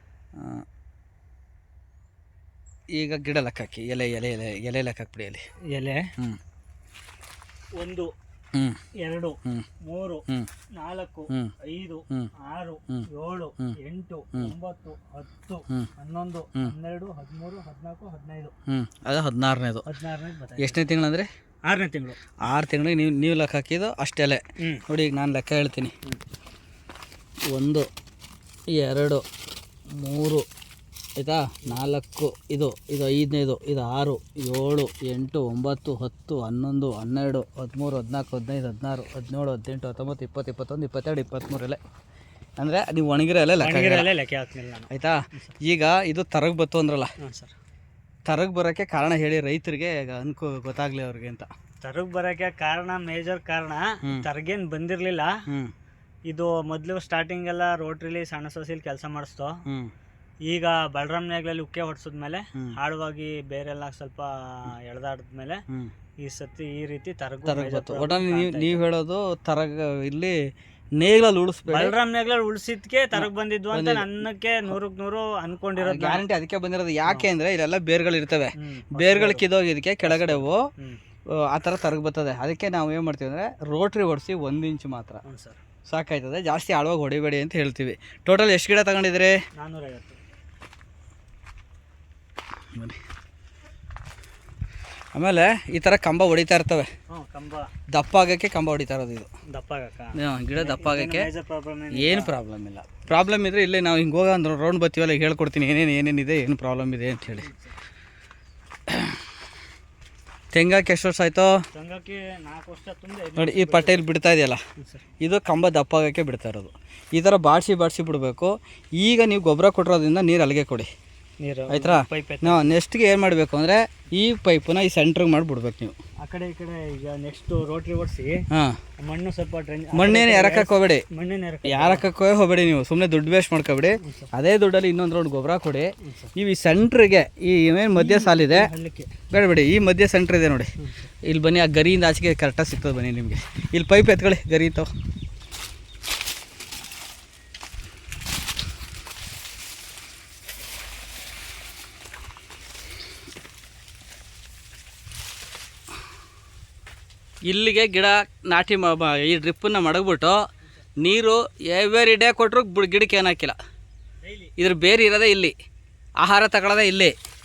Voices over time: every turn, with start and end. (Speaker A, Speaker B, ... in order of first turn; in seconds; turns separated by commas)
Speaker A: 0.4-0.6, Speaker A: 3.0-5.4, Speaker B: 5.7-6.1, Speaker B: 7.8-8.1, Speaker A: 8.5-8.8, Speaker B: 9.0-18.5, Speaker A: 18.7-19.9, Speaker B: 19.9-20.8, Speaker A: 20.6-21.3, Speaker B: 21.6-22.2, Speaker A: 22.4-25.9, Speaker A: 27.5-27.9, Speaker A: 28.7-29.2, Speaker A: 29.9-30.4, Speaker A: 31.2-41.8, Speaker A: 42.6-44.1, Speaker B: 43.6-45.5, Speaker A: 44.9-47.1, Speaker B: 47.2-47.5, Speaker A: 48.3-51.5, Speaker B: 51.8-55.4, Speaker A: 55.5-55.7, Speaker B: 56.3-59.6, Speaker B: 60.5-65.6, Speaker B: 66.2-68.8, Speaker A: 67.5-70.4, Speaker A: 71.0-72.0, Speaker B: 71.7-76.2, Speaker A: 73.1-74.2, Speaker A: 75.8-80.7, Speaker B: 78.6-79.5, Speaker B: 80.1-81.0, Speaker A: 81.3-85.2, Speaker B: 85.2-85.6, Speaker A: 85.9-89.3, Speaker B: 89.6-90.2, Speaker A: 92.7-93.0, Speaker A: 95.2-96.9, Speaker B: 97.1-97.7, Speaker A: 97.9-99.3, Speaker B: 99.5-102.3, Speaker A: 100.2-101.3, Speaker A: 101.9-107.5, Speaker B: 107.4-107.8, Speaker A: 108.9-109.2, Speaker A: 110.5-111.5, Speaker B: 111.7-114.0, Speaker A: 113.4-114.6, Speaker B: 114.8-115.0, Speaker A: 115.2-120.9, Speaker B: 121.4-122.7, Speaker A: 121.7-126.0, Speaker B: 126.2-128.4, Speaker A: 128.5-128.8, Speaker B: 129.0-132.1, Speaker A: 129.9-131.1, Speaker A: 131.7-138.7, Speaker B: 134.0-134.3, Speaker B: 136.0-136.3, Speaker B: 137.9-139.1, Speaker A: 139.3-140.7, Speaker B: 140.8-141.1, Speaker A: 141.2-144.9, Speaker A: 157.5-160.4, Speaker A: 161.0-163.6, Speaker B: 164.2-164.6, Speaker A: 164.6-165.5, Speaker A: 166.2-167.2